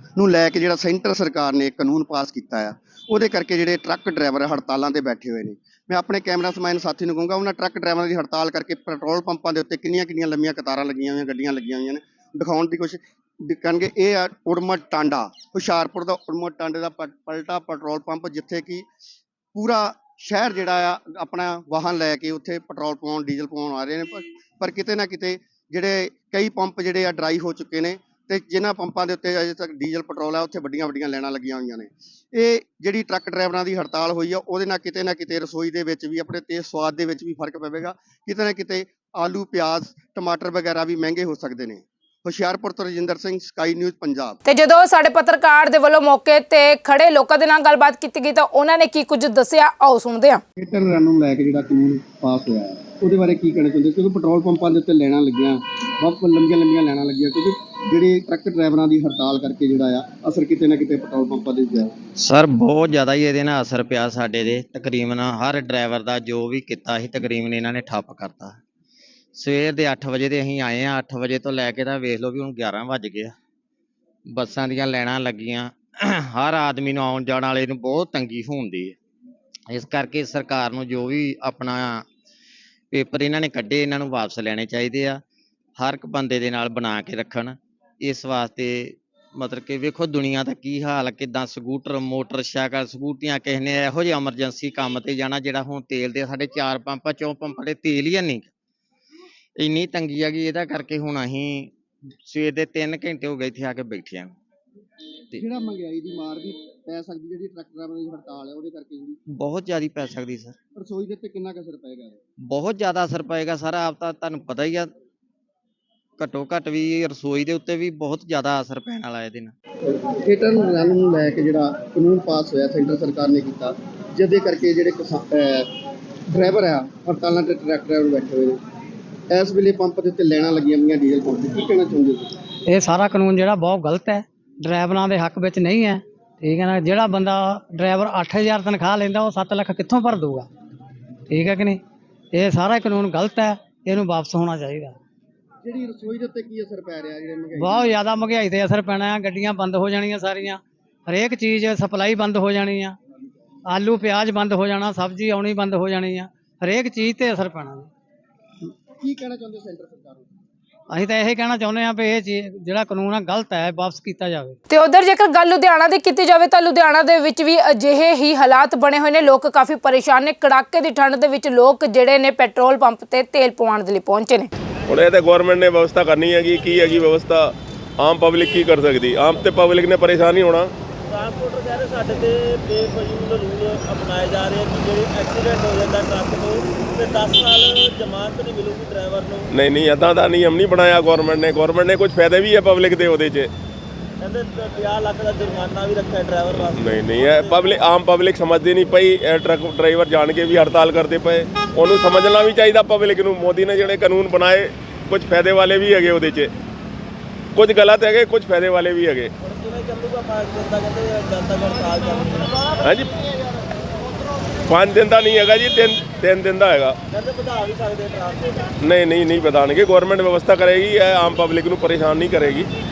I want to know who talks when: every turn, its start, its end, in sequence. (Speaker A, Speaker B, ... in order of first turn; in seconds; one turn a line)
Speaker A: 0.2-18.9
Speaker A: 19.5-44.4
Speaker B: 44.5-50.4
Speaker A: 50.6-61.9
Speaker C: 62.2-68.6
Speaker C: 69.3-73.3
Speaker C: 74.3-79.0
Speaker C: 79.7-82.0
Speaker C: 82.9-85.2
Speaker C: 85.8-98.5
Speaker C: 99.6-101.7
Speaker C: 102.2-104.3
Speaker A: 105.3-109.2
Speaker C: 109.3-110.5
Speaker A: 110.8-112.2
Speaker C: 112.5-114.9
Speaker C: 116.2-119.5
Speaker A: 119.9-125.7
Speaker A: 126.3-128.6
Speaker A: 129.3-132.3
Speaker D: 132.7-140.5
Speaker D: 141.3-141.8
Speaker D: 142.3-145.0
Speaker A: 145.6-148.0
Speaker D: 147.5-153.0
Speaker D: 153.7-157.9
Speaker A: 159.0-160.3
Speaker D: 160.9-164.6
Speaker B: 164.7-174.5
Speaker E: 174.9-180.7
Speaker F: 181.1-189.5
Speaker E: 189.5-193.5
Speaker F: 194.2-197.7
Speaker E: 196.7-206.5
Speaker E: 207.6-209.3
Speaker F: 209.4-212.8
Speaker E: 212.8-213.2
Speaker E: 214.7-217.0
Speaker F: 217.1-218.7
Speaker E: 218.8-222.7